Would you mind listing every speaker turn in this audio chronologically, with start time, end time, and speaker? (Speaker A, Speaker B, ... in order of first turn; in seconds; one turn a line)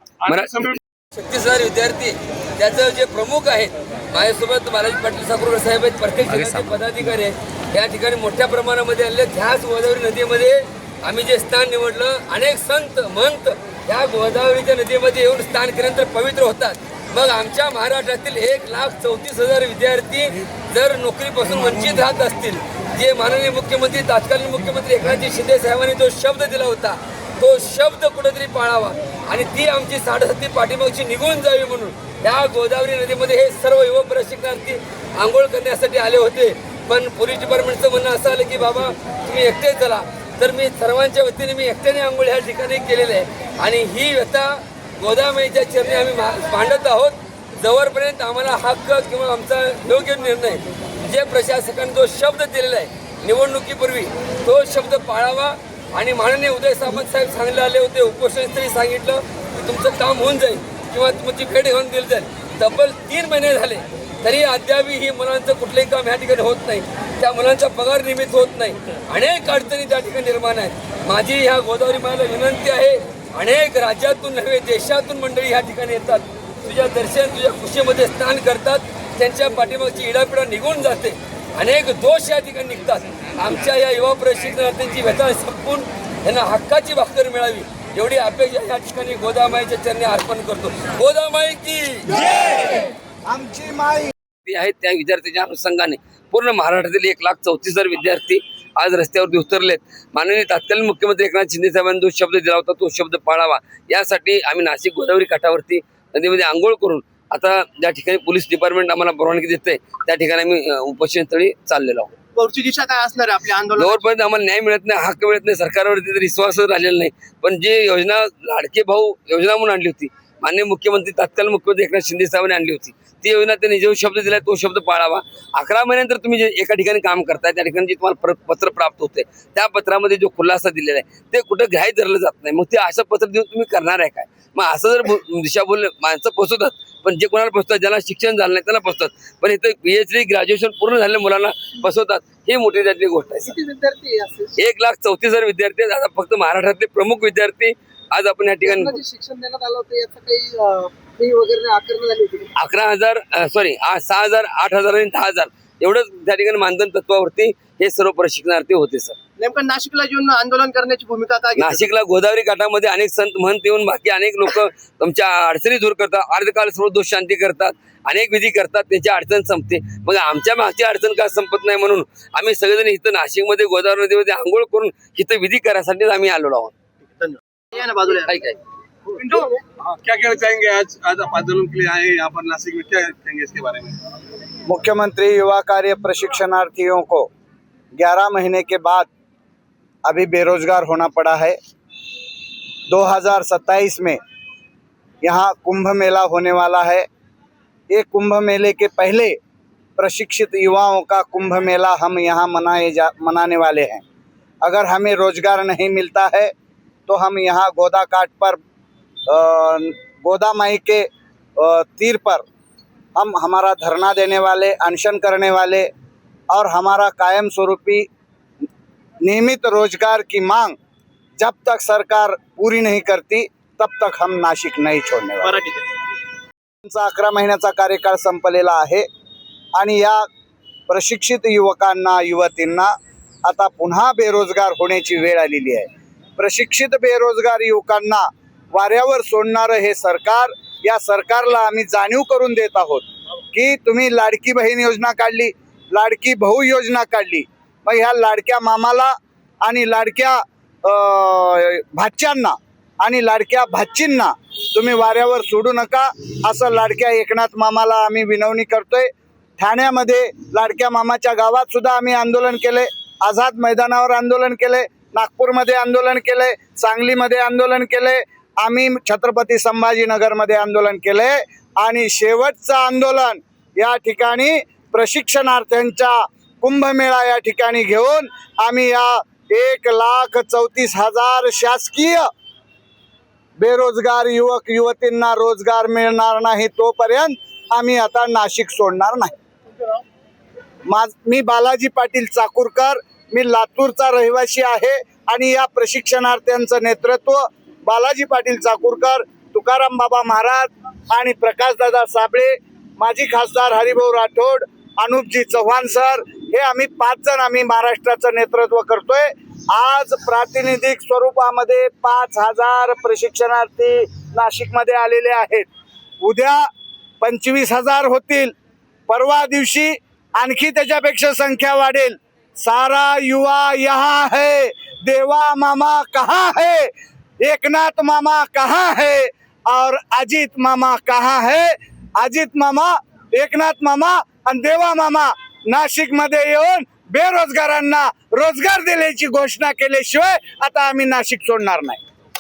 Speaker A: 0.2-0.8
Speaker B: 0.3-92.9
Speaker C: 93.3-94.1
Speaker B: 94.5-112.1
Speaker D: 112.3-114.1
Speaker B: 113.8-143.6
Speaker D: 143.5-144.6
Speaker B: 144.6-149.0
Speaker D: 148.6-152.5
Speaker B: 152.6-159.2
Speaker D: 159.4-161.9
Speaker B: 161.6-176.7
Speaker D: 177.2-178.3
Speaker B: 178.3-178.6
Speaker A: 179.2-184.0
Speaker C: 184.7-187.3
Speaker C: 188.0-189.1
Speaker C: 190.1-191.6
Speaker C: 192.9-194.2
Speaker C: 195.2-197.1
Speaker C: 197.9-199.4
Speaker C: 200.0-204.0
Speaker C: 204.6-206.5
Speaker C: 207.1-208.6
Speaker C: 209.3-211.1
Speaker C: 211.6-212.4
Speaker C: 213.2-215.9
Speaker C: 216.5-218.1
Speaker C: 219.2-220.8
Speaker C: 221.4-225.6
Speaker D: 225.4-225.9
Speaker C: 226.9-229.1
Speaker C: 229.8-230.3
Speaker C: 230.9-232.9
Speaker C: 233.5-282.3
Speaker C: 283.6-289.4
Speaker C: 290.9-315.7
Speaker C: 316.2-316.7
Speaker C: 317.2-318.5
Speaker C: 319.1-326.9
Speaker C: 327.4-342.0